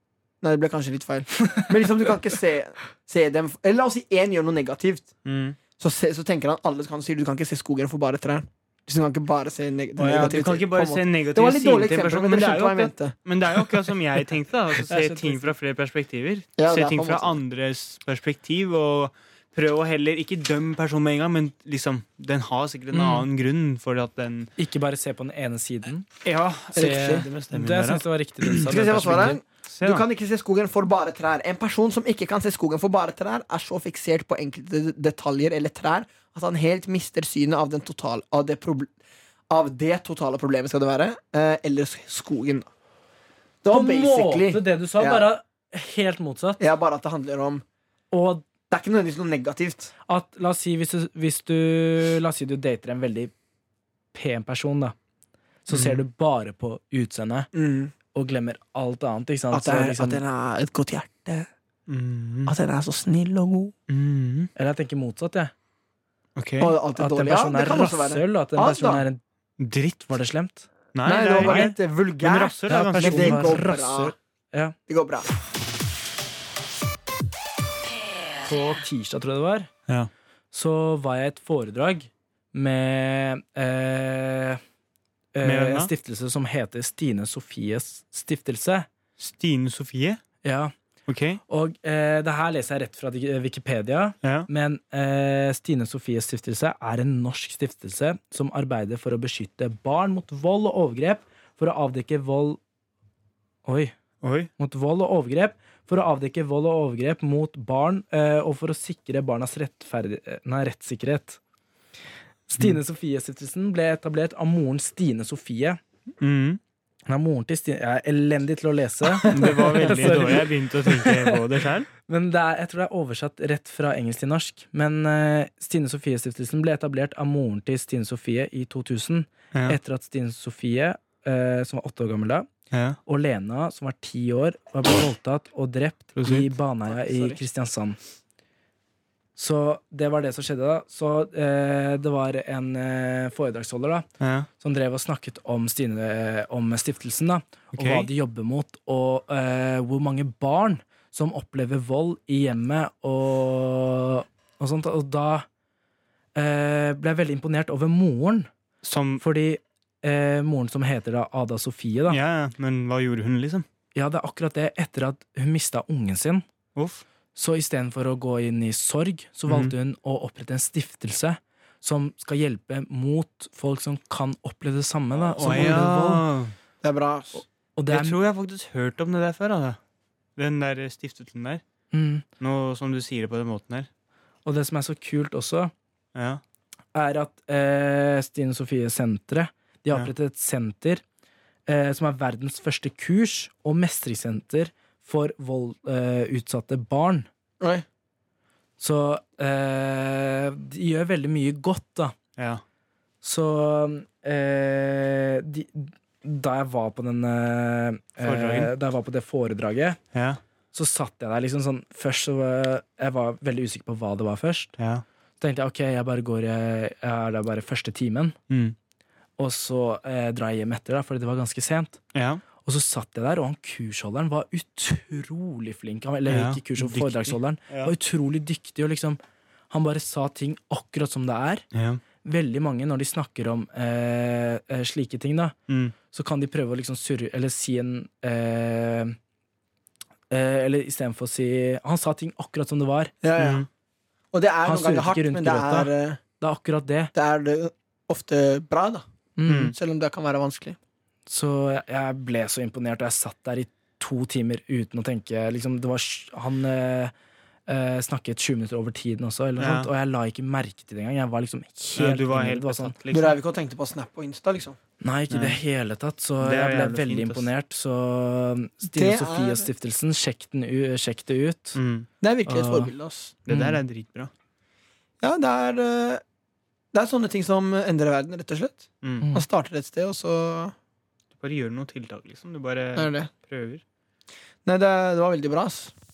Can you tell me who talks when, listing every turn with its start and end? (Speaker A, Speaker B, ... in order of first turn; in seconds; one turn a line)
Speaker A: 0.4-5.1
Speaker B: 5.2-5.6
Speaker A: 5.7-13.6
Speaker B: 10.0-24.5
Speaker C: 14.8-15.5
Speaker A: 16.6-17.4
Speaker C: 22.9-23.2
Speaker C: 24.6-26.1
Speaker B: 26.2-28.0
Speaker C: 26.7-29.4
Speaker A: 26.7-27.3
Speaker A: 28.6-38.9
Speaker B: 29.4-30.0
Speaker A: 39.5-42.7
Speaker A: 43.6-45.2
Speaker C: 43.7-46.6
Speaker A: 46.6-47.6
Speaker C: 48.1-48.4
Speaker A: 48.7-49.9
Speaker C: 50.1-53.3
Speaker C: 54.1-54.9
Speaker C: 55.6-57.5
Speaker B: 55.7-56.0
Speaker A: 57.5-57.9
Speaker C: 58.1-60.2
Speaker A: 59.5-61.5
Speaker B: 61.9-62.5
Speaker A: 62.5-63.7
Speaker B: 63.9-64.5
Speaker C: 64.5-65.5
Speaker B: 66.3-66.8
Speaker A: 66.6-69.0
Speaker C: 67.0-69.2
Speaker B: 69.6-70.1
Speaker C: 70.1-70.7
Speaker B: 70.9-73.6
Speaker A: 71.0-74.1
Speaker C: 71.4-71.7
Speaker C: 72.7-74.8
Speaker A: 74.9-75.3
Speaker C: 78.4-79.7
Speaker C: 80.5-84.6
Speaker C: 85.3-88.9
Speaker B: 85.4-85.9
Speaker B: 89.2-90.2
Speaker C: 90.4-90.7
Speaker B: 91.1-91.4
Speaker C: 91.5-102.6
Speaker B: 94.2-94.5
Speaker C: 103.6-104.0
Speaker B: 104.2-104.5
Speaker C: 104.6-111.4
Speaker C: 112.5-115.8
Speaker B: 116.2-116.6
Speaker C: 117.1-121.4
Speaker B: 119.1-121.9
Speaker C: 122.0-132.5
Speaker B: 132.7-133.0
Speaker C: 133.1-138.0
Speaker B: 136.2-136.5
Speaker A: 136.9-137.4
Speaker C: 139.3-144.1
Speaker B: 144.2-144.5
Speaker C: 144.6-155.5
Speaker B: 147.7-148.1
Speaker C: 156.3-158.5
Speaker B: 158.8-159.2
Speaker C: 159.2-162.2
Speaker B: 162.1-163.6
Speaker C: 163.9-166.4
Speaker B: 166.7-167.0
Speaker C: 167.3-176.3
Speaker B: 169.5-169.7
Speaker B: 175.2-176.5
Speaker A: 176.8-177.4
Speaker C: 177.8-178.2
Speaker B: 177.9-179.8
Speaker B: 180.3-181.6
Speaker C: 181.9-182.2
Speaker B: 182.4-183.9
Speaker C: 184.4-185.7
Speaker B: 186.1-186.4
Speaker C: 186.9-191.0
Speaker C: 191.7-197.3
Speaker A: 197.6-197.8
Speaker C: 198.8-202.2
Speaker B: 202.3-202.6
Speaker C: 203.2-210.0
Speaker B: 208.2-208.7
Speaker B: 210.1-210.4
Speaker C: 210.7-214.7
Speaker B: 214.8-215.0
Speaker C: 215.4-218.4
Speaker B: 218.5-218.7
Speaker C: 219.4-222.0
Speaker B: 222.1-222.4
Speaker C: 222.6-231.7
Speaker B: 226.3-227.9
Speaker B: 231.7-232.0
Speaker C: 232.2-235.6
Speaker B: 235.7-235.9
Speaker C: 236.1-239.2
Speaker C: 240.3-243.1
Speaker A: 243.2-243.7
Speaker B: 243.4-243.7
Speaker A: 244.3-246.2
Speaker C: 244.6-247.1
Speaker A: 247.1-249.0
Speaker C: 249.4-249.7
Speaker B: 249.5-249.7
Speaker A: 249.7-250.8
Speaker C: 251.3-257.1
Speaker C: 257.7-262.9
Speaker B: 259.6-259.9
Speaker B: 261.9-263.4
Speaker A: 263.1-264.8
Speaker C: 265.0-271.8
Speaker B: 265.3-265.6
Speaker B: 266.4-267.5
Speaker A: 268.9-269.7
Speaker B: 271.7-272.1
Speaker A: 272.2-273.4
Speaker C: 272.4-272.9
Speaker B: 273.4-274.3
Speaker C: 273.5-273.8
Speaker A: 275.2-276.2
Speaker A: 276.9-280.7
Speaker B: 279.0-279.3
Speaker B: 281.3-283.8
Speaker A: 282.9-283.3
Speaker A: 284.6-285.9